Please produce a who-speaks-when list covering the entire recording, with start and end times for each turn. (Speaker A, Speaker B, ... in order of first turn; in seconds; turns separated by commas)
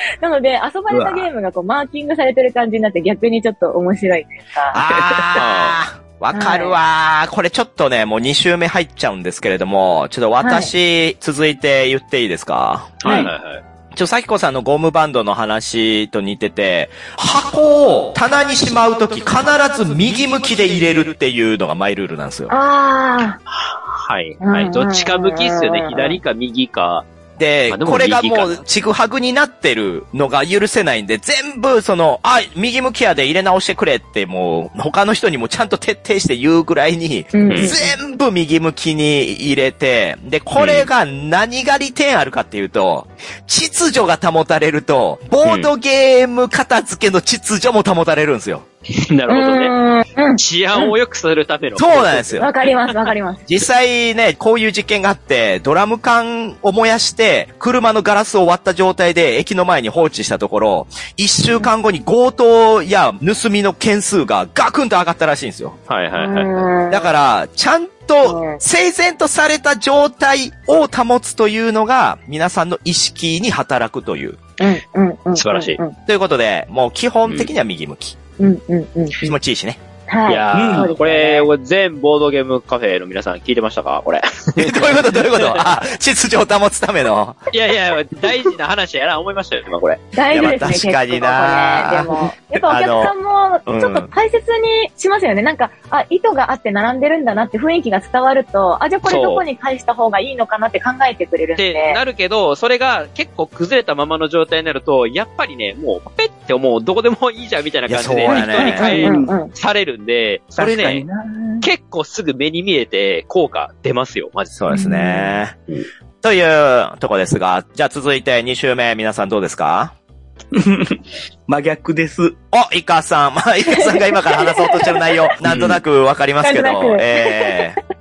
Speaker A: 0.2-4.8, Speaker B: 0.9-1.3, Speaker C: 4.7-13.2, Speaker B: 5.1-5.4, Speaker D: 5.4-5.8, Speaker A: 6.3-6.8, Speaker A: 10.4-10.7, Speaker D: 13.0-13.6, Speaker A: 13.1-13.3, Speaker C: 13.9-22.5, Speaker A: 22.5-23.4, Speaker D: 23.5-27.1, Speaker A: 24.4-26.2, Speaker C: 27.4-48.6, Speaker D: 27.7-28.6, Speaker A: 37.3-37.9, Speaker D: 37.5-37.7, Speaker D: 40.5-40.9, Speaker D: 45.4-45.7, Speaker D: 49.0-49.7, Speaker A: 49.3-50.9, Speaker D: 50.4-53.1, Speaker C: 51.8-52.5, Speaker A: 52.4-53.5, Speaker C: 53.5-65.8, Speaker D: 65.9-66.7, Speaker A: 66.1-67.1, Speaker C: 66.9-74.4, Speaker A: 68.2-68.6, Speaker A: 74.6-76.0, Speaker D: 75.4-75.8, Speaker C: 76.1-78.2, Speaker A: 78.4-79.3, Speaker C: 79.2-79.8, Speaker A: 80.1-81.5, Speaker D: 80.3-85.7, Speaker B: 80.5-80.9, Speaker C: 84.6-87.4, Speaker D: 87.5-90.1, Speaker A: 90.1-102.0, Speaker C: 90.3-93.1, Speaker C: 93.7-94.1, Speaker D: 99.0-99.5, Speaker D: 101.6-111.0, Speaker C: 107.9-109.0, Speaker B: 108.3-109.3, Speaker A: 108.7-109.5, Speaker B: 110.5-111.7, Speaker D: 111.6-114.7, Speaker C: 114.6-115.6, Speaker A: 114.7-115.4, Speaker C: 116.2-120.0, Speaker B: 120.5-122.4, Speaker C: 122.5-127.8, Speaker A: 123.6-125.0, Speaker D: 125.5-125.8, Speaker A: 126.4-127.6